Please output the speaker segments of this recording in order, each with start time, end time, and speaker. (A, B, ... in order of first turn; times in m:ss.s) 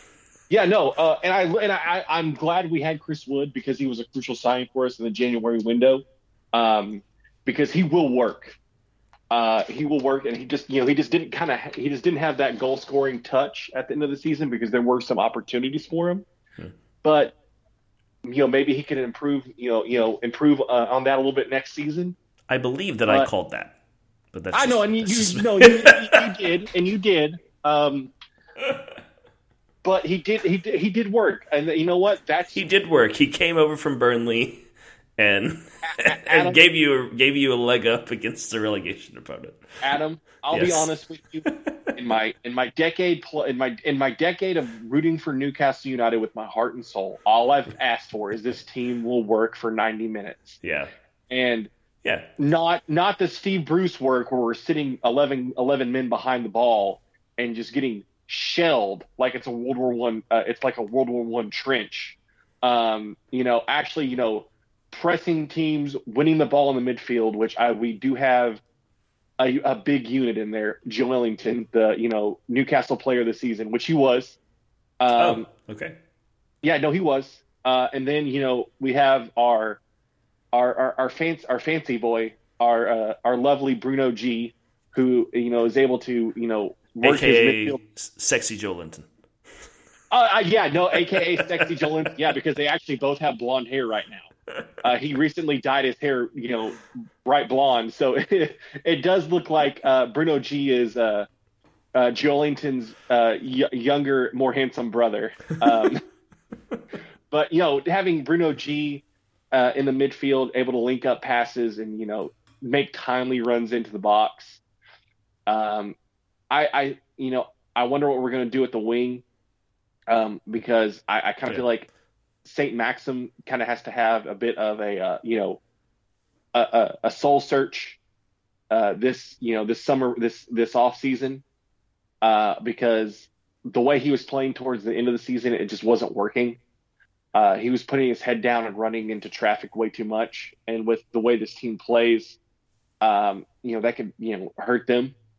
0:00.5-0:08.6 A
0:09.3-0:16.3 A
0:17.0-0:17.4 A
0:18.2-0:22.2 A
0:22.5-0:23.8 B
0:24.3-0:26.2 B
0:24.5-0:28.1 A
0:29.8-0:32.6 A
0:32.5-0:34.7 B
0:35.2-0:39.6 B
0:35.8-0:36.6 A
0:39.8-0:50.6 A
0:40.5-0:40.9 B
0:41.5-0:41.8 B
0:50.6-0:50.9 B
0:51.3-0:51.7 A
0:52.0-0:52.3 B
0:52.4-1:08.6 A
1:09.4-1:14.4 A
1:15.0-1:15.5 A
1:15.2-1:16.0 B
1:16.6-1:19.8 A
1:20.5-1:27.8 A
1:27.0-1:29.1 B
1:30.1-1:34.3 A
1:31.1-1:32.1 B
1:34.8-1:41.3 A
1:41.9-1:46.0 A
1:47.3-1:54.6 A
1:55.5-1:56.0 A
1:56.5-1:59.2 A
2:00.1-2:01.9 A
2:02.4-2:05.6 A
2:06.5-2:08.0 A
2:08.7-2:11.4 A
2:12.2-2:16.6 A
2:17.3-2:22.4 A
2:23.0-2:25.2 A